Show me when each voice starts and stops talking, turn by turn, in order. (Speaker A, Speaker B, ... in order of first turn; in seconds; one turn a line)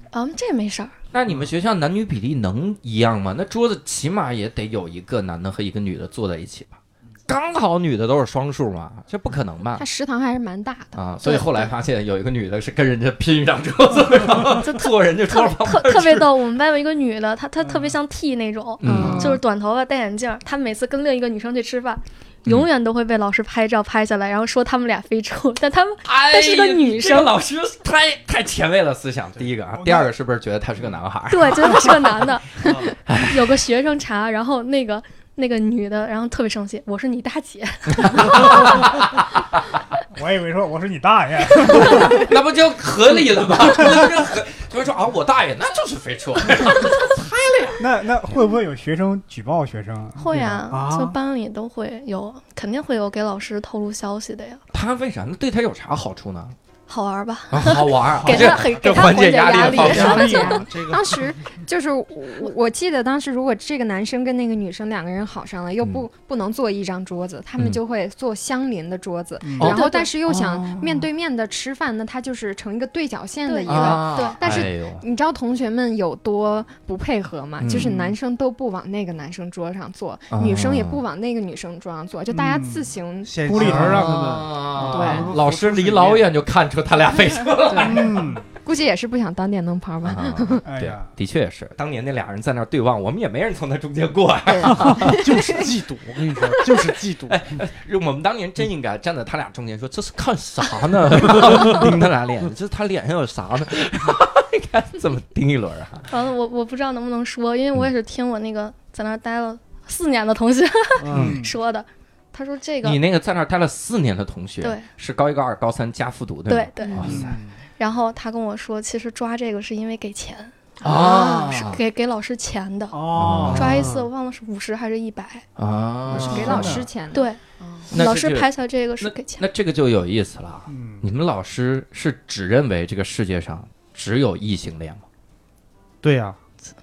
Speaker A: 0.1-0.9
Speaker B: 1.1-9.9
Speaker C: 9.8-11.7
Speaker B: 10.9-16.3
Speaker A: 14.4-27.4
Speaker D: 17.6-18.0
Speaker B: 18.8-19.4
Speaker C: 18.8-19.4
Speaker B: 26.0-32.2
Speaker D: 29.7-30.1
Speaker A: 31.3-38.7
Speaker E: 32.6-32.9
Speaker B: 33.1-33.6
Speaker B: 38.0-39.6
Speaker D: 40.1-42.3
Speaker B: 41.6-47.8
Speaker D: 47.8-51.2
Speaker A: 50.2-54.6
Speaker B: 54.7-56.6
Speaker A: 56.9-60.7
Speaker B: 57.5-60.5
Speaker C: 59.5-83.9
Speaker E: 59.7-61.2
Speaker D: 59.9-60.6
Speaker D: 69.4-69.8
Speaker B: 69.6-71.1
Speaker A: 69.6-70.1
Speaker A: 73.5-74.4
Speaker B: 73.7-75.0
Speaker B: 77.6-78.0
Speaker D: 77.8-78.2
Speaker B: 80.3-81.0
Speaker D: 82.3-82.9
Speaker E: 83.2-86.2
Speaker D: 83.5-84.2
Speaker B: 83.6-88.4
Speaker C: 84.8-85.3
Speaker C: 87.7-90.7
Speaker D: 87.8-88.5
Speaker B: 90.0-95.4
Speaker D: 90.7-91.1
Speaker C: 94.5-95.5
Speaker E: 94.9-97.4
Speaker B: 97.2-106.1
Speaker E: 101.4-101.9
Speaker A: 106.1-113.0
Speaker E: 111.0-111.4
Speaker D: 111.1-111.5
Speaker B: 112.8-117.4
Speaker A: 114.6-114.9
Speaker A: 116.5-117.1
Speaker D: 117.0-117.6
Speaker A: 117.8-125.5
Speaker B: 120.8-121.8
Speaker C: 120.8-121.5
Speaker D: 122.9-123.8
Speaker B: 123.2-123.8
Speaker E: 123.5-124.1
Speaker B: 125.6-126.8
Speaker C: 126.1-127.9
Speaker D: 126.1-126.9
Speaker A: 127.1-127.4
Speaker B: 127.9-128.5
Speaker A: 127.9-129.4
Speaker B: 129.0-135.0
Speaker D: 130.7-131.1
Speaker E: 136.0-136.4